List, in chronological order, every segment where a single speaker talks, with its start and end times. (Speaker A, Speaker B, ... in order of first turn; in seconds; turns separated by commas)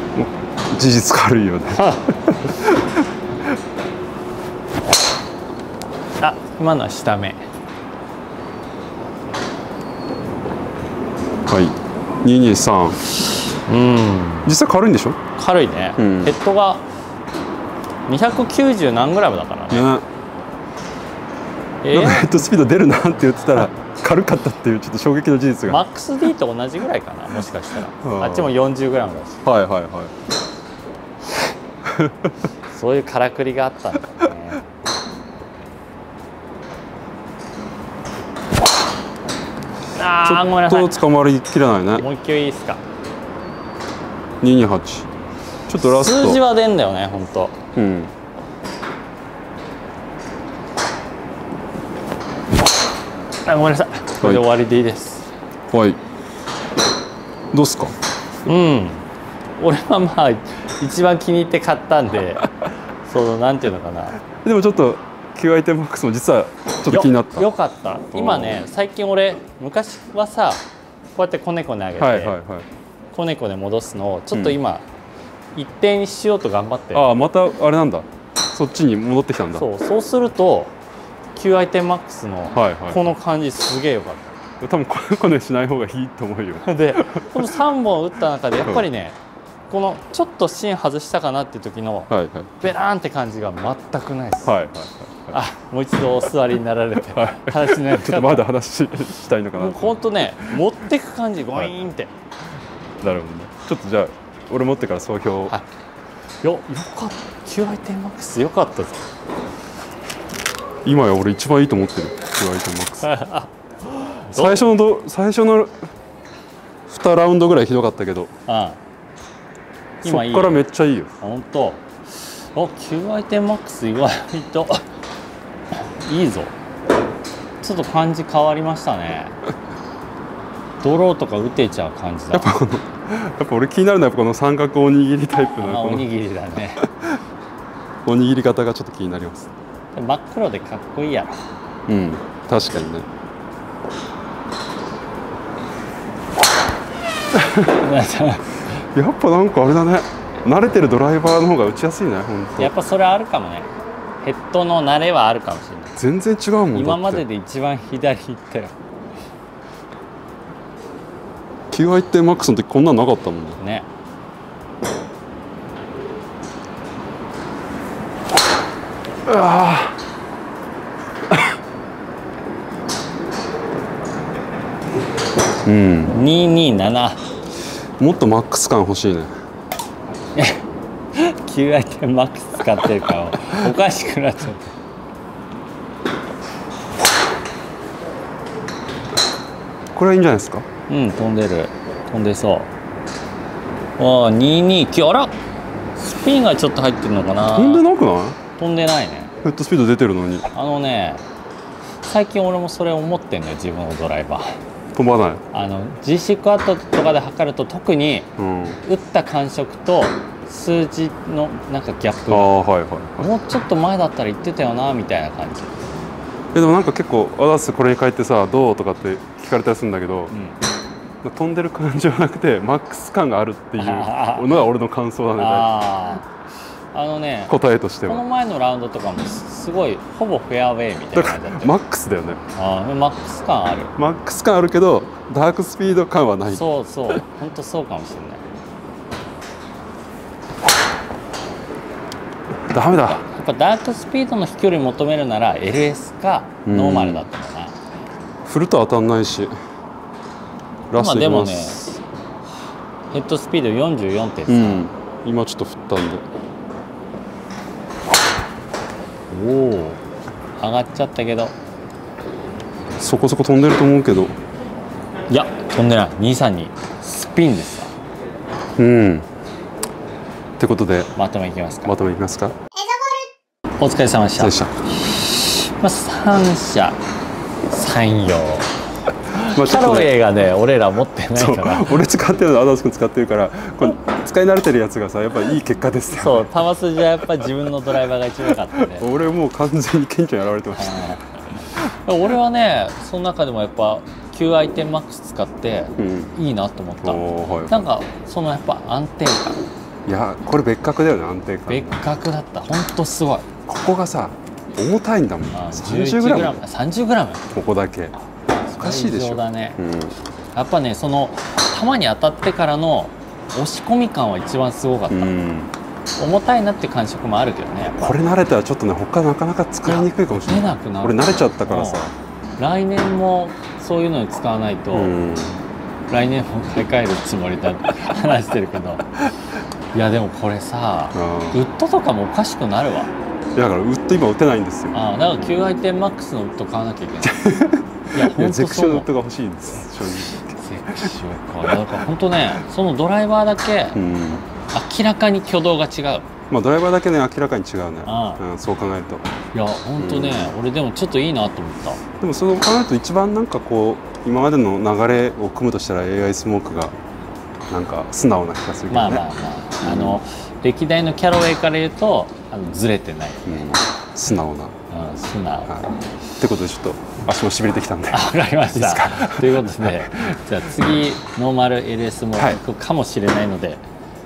Speaker A: 0.1-3.0, Speaker B: 1.7-2.5, Speaker B: 6.2-7.4, Speaker A: 11.5-13.0, Speaker B: 13.7-14.5, Speaker A: 14.4-15.2, Speaker B: 15.3-16.9, Speaker A: 16.0-16.4, Speaker B: 18.1-19.9, Speaker A: 19.7-20.0, Speaker B: 21.8-22.3, Speaker A: 21.9-25.8, Speaker B: 25.7-29.4, Speaker A: 28.0-28.5, Speaker A: 29.4-30.1, Speaker A: 31.8-32.3, Speaker B: 32.7-34.6, Speaker B: 39.9-41.0, Speaker A: 40.2-42.0, Speaker B: 42.0-42.8, Speaker A: 44.4-45.1, Speaker A: 45.7-46.4, Speaker B: 45.8-47.5, Speaker A: 47.8-48.1, Speaker B: 53.4-55.3, Speaker A: 55.7-56.0, Speaker A: 57.5-57.9, Speaker B: 58.5-59.0, Speaker B: 59.6-62.5, Speaker B: 63.0-64.2, Speaker A: 64.4-67.5, Speaker B: 66.9-70.6, Speaker A: 68.1-68.7, Speaker B: 71.2-72.3, Speaker A: 72.0-72.7, Speaker B: 73.1-74.8, Speaker A: 74.3-74.6, Speaker B: 75.5-77.1, Speaker A: 76.9-79.7, Speaker B: 79.5-80.7, Speaker B: 81.3-84.4, Speaker A: 82.5-83.1, Speaker A: 84.6-87.4, Speaker B: 86.6-89.2, Speaker B: 89.7-94.5, Speaker A: 92.1-92.5, Speaker A: 94.4-95.4, Speaker B: 95.3-98.5, Speaker A: 97.1-100.6, Speaker B: 99.5-102.1, Speaker A: 103.0-105.6, Speaker B: 106.4-109.0, Speaker A: 110.8-113.1, Speaker B: 113.0-114.6, Speaker A: 114.3-115.8, Speaker A: 116.9-118.3, Speaker B: 118.5-118.8, Speaker B: 120.0-120.6, Speaker A: 120.0-121.1, Speaker B: 121.2-124.8, Speaker B: 125.7-126.5, Speaker B: 127.6-129.3, Speaker B: 130.8-132.5, Speaker A: 132.3-136.1, Speaker B: 135.6-136.9, Speaker A: 138.0-139.5, Speaker B: 139.9-141.4, Speaker A: 141.9-143.1, Speaker A: 147.4-147.6, Speaker B: 147.5-148.6, Speaker A: 148.8-152.7, Speaker B: 152.6-153.7, Speaker B: 154.2-156.0, Speaker A: 156.0-157.2, Speaker B: 156.7-158.7, Speaker A: 161.7-163.6, Speaker B: 163.6-163.9, Speaker A: 169.2-169.9, Speaker A: 175.6-176.2, Speaker B: 176.1-177.2, Speaker A: 178.0-179.3, Speaker B: 180.3-184.7, Speaker A: 189.9-190.7, Speaker B: 190.9-192.7, Speaker B: 194.0-195.3, Speaker B: 196.0-197.8, Speaker A: 197.5-198.4, Speaker B: 198.6-199.3, Speaker A: 199.4-200.5, Speaker B: 200.5-201.2, Speaker B: 202.0-204.6, Speaker A: 204.9-205.4, Speaker B: 205.5-208.3, Speaker A: 208.4-208.8, Speaker B: 208.8-212.5, Speaker A: 212.3-213.3, Speaker B: 213.2-215.8, Speaker A: 216.5-220.3, Speaker B: 220.3-220.6, Speaker A: 221.2-225.8, Speaker B: 223.8-224.6, Speaker B: 225.4-226.2, Speaker B: 226.9-227.5, Speaker A: 227.5-228.2, Speaker B: 228.1-231.7, Speaker A: 231.1-232.4, Speaker B: 232.5-233.9, Speaker A: 234.0-237.2, Speaker B: 236.5-238.4, Speaker A: 242.7-243.2, Speaker B: 243.2-247.8, Speaker A: 246.6-247.2, Speaker A: 248.4-249.5, Speaker A: 250.9-251.9, Speaker B: 250.9-251.9, Speaker B: 253.1-254.9, Speaker A: 254.5-256.2, Speaker B: 259.3-260.0, Speaker B: 260.6-261.5, Speaker A: 263.0-264.4, Speaker B: 265.3-267.9, Speaker A: 268.8-269.3, Speaker A: 270.6-271.1, Speaker B: 271.1-271.9, Speaker A: 271.8-272.5, Speaker B: 273.8-277.0, Speaker A: 274.4-274.7, Speaker B: 277.7-278.7, Speaker B: 279.3-282.0, Speaker A: 279.3-280.1, Speaker A: 281.3-286.5, Speaker B: 286.1-289.1, Speaker A: 288.7-291.2, Speaker B: 290.7-299.6, Speaker A: 296.0-296.3, Speaker A: 297.0-297.9, Speaker A: 300.1-302.0, Speaker B: 301.7-303.5, Speaker A: 303.6-306.6, Speaker B: 305.5-307.5, Speaker A: 307.5-308.1, Speaker B: 308.7-309.8, Speaker A: 308.7-310.1, Speaker B: 310.5-315.3, Speaker A: 315.1-315.7, Speaker B: 316.2-318.2, Speaker A: 318.0-322.1, Speaker B: 319.8-322.0, Speaker B: 322.6-325.1, Speaker A: 324.9-325.6, Speaker B: 326.1-329.1, Speaker B: 329.9-333.1, Speaker A: 331.1-331.6, Speaker A: 333.5-335.0, Speaker B: 334.9-337.4, Speaker A: 337.2-341.1, Speaker B: 338.1-339.1, Speaker B: 340.5-344.0, Speaker A: 343.9-344.5, Speaker B: 344.7-346.3, Speaker A: 346.5-349.3, Speaker B: 348.1-348.4, Speaker B: 349.5-352.0, Speaker A: 350.0-350.5, Speaker A: 352.2-356.9, Speaker A: 357.7-359.3, Speaker B: 358.9-363.6, Speaker A: 359.8-360.2, Speaker A: 363.4-364.7, Speaker B: 364.9-365.9, Speaker A: 366.4-370.4, Speaker B: 368.1-373.8